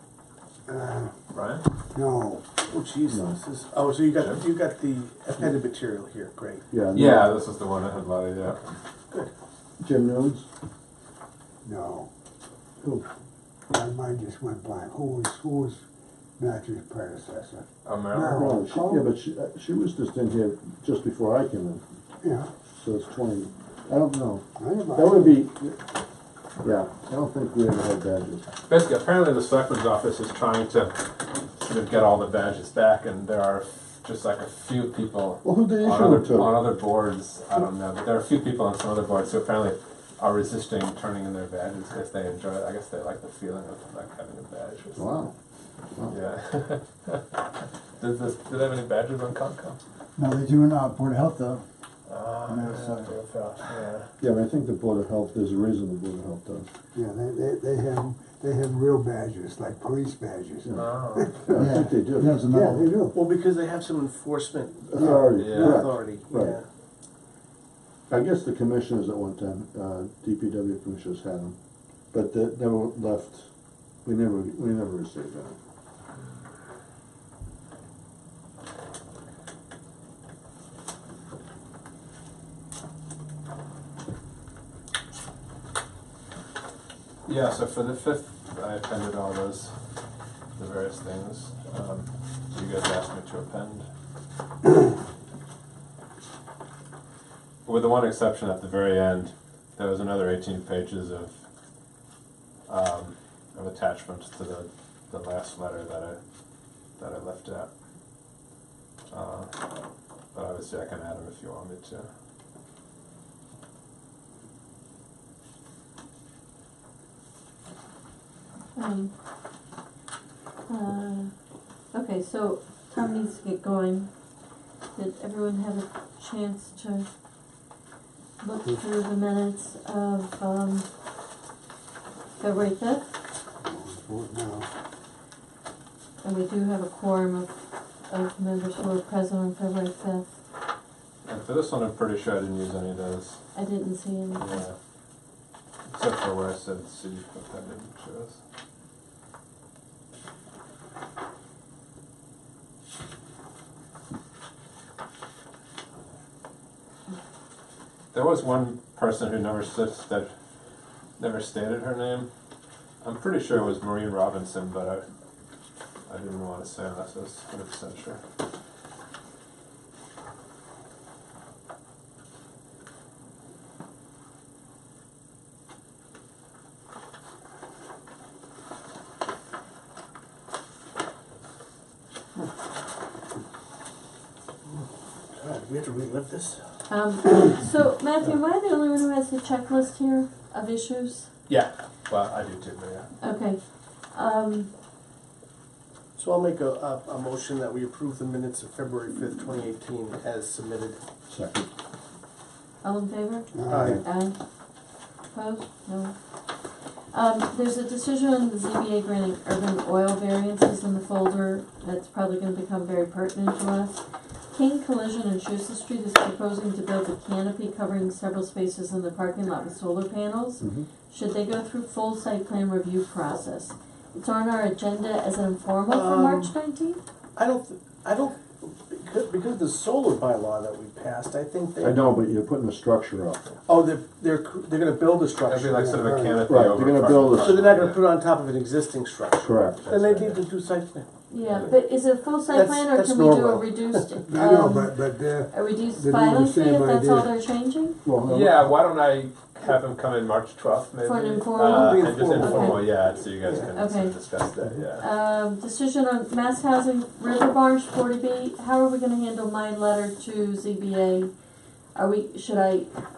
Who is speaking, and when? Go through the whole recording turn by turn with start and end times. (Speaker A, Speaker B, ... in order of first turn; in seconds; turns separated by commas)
Speaker A: 0.7-1.1, Speaker B: 1.3-1.6, Speaker A: 1.9-2.4, Speaker C: 2.7-6.6, Speaker B: 4.1-4.4, Speaker D: 6.7-7.3, Speaker B: 6.9-8.6, Speaker D: 9.8-10.5, Speaker A: 11.6-12.1, Speaker D: 12.8-13.0, Speaker A: 13.7-15.8, Speaker A: 16.4-19.1, Speaker B: 17.8-18.6, Speaker D: 18.2-21.8, Speaker A: 22.2-22.5, Speaker D: 22.7-25.8, Speaker A: 24.6-25.4, Speaker D: 26.6-28.5, Speaker B: 28.7-31.0, Speaker B: 31.5-45.0, Speaker D: 35.4-36.6, Speaker D: 45.0-45.3, Speaker B: 46.1-47.4, Speaker B: 48.0-49.8, Speaker E: 50.2-51.6, Speaker B: 52.1-54.1, Speaker E: 52.5-53.1, Speaker D: 54.2-56.7, Speaker A: 56.9-63.1, Speaker D: 60.6-62.6, Speaker B: 60.7-61.4, Speaker E: 61.5-62.8, Speaker C: 63.1-66.7, Speaker D: 64.9-66.6, Speaker A: 64.9-65.3, Speaker B: 65.4-65.8, Speaker D: 68.1-71.5, Speaker D: 72.1-73.5, Speaker D: 74.0-75.6, Speaker B: 87.2-89.7, Speaker B: 90.5-93.9, Speaker B: 97.7-101.3, Speaker B: 102.7-106.2, Speaker B: 107.0-107.7, Speaker B: 109.1-109.7, Speaker B: 110.3-112.1, Speaker F: 118.7-119.1, Speaker F: 120.7-127.1, Speaker F: 128.4-130.8, Speaker F: 132.4-133.1, Speaker A: 133.6-134.7, Speaker F: 136.2-137.5, Speaker F: 138.0-140.3, Speaker B: 141.2-143.4, Speaker F: 143.5-144.6, Speaker B: 144.4-144.8, Speaker B: 145.9-148.4, Speaker B: 158.1-160.3, Speaker B: 161.2-162.3, Speaker B: 163.0-165.1, Speaker B: 166.1-168.2, Speaker C: 185.3-186.7, Speaker F: 186.9-191.3, Speaker B: 191.5-193.1, Speaker F: 193.2-194.7, Speaker C: 196.2-201.0, Speaker D: 201.3-201.7, Speaker F: 202.8-227.0, Speaker A: 203.5-204.0, Speaker C: 203.7-204.0, Speaker D: 203.7-204.0, Speaker D: 220.6-220.9, Speaker C: 225.9-226.5, Speaker C: 227.3-232.0, Speaker D: 231.8-233.5, Speaker C: 233.7-236.0, Speaker B: 235.4-238.0, Speaker A: 235.7-236.5, Speaker D: 236.5-237.7, Speaker C: 237.4-241.1, Speaker D: 239.4-240.0, Speaker B: 239.7-240.4, Speaker F: 241.3-248.0, Speaker B: 241.4-241.7, Speaker C: 242.5-244.2, Speaker A: 244.3-247.4, Speaker D: 248.0-248.7, Speaker B: 248.2-255.0, Speaker F: 251.0-252.9, Speaker C: 251.5-253.0, Speaker F: 253.7-254.2, Speaker F: 255.0-261.3, Speaker F: 261.9-262.9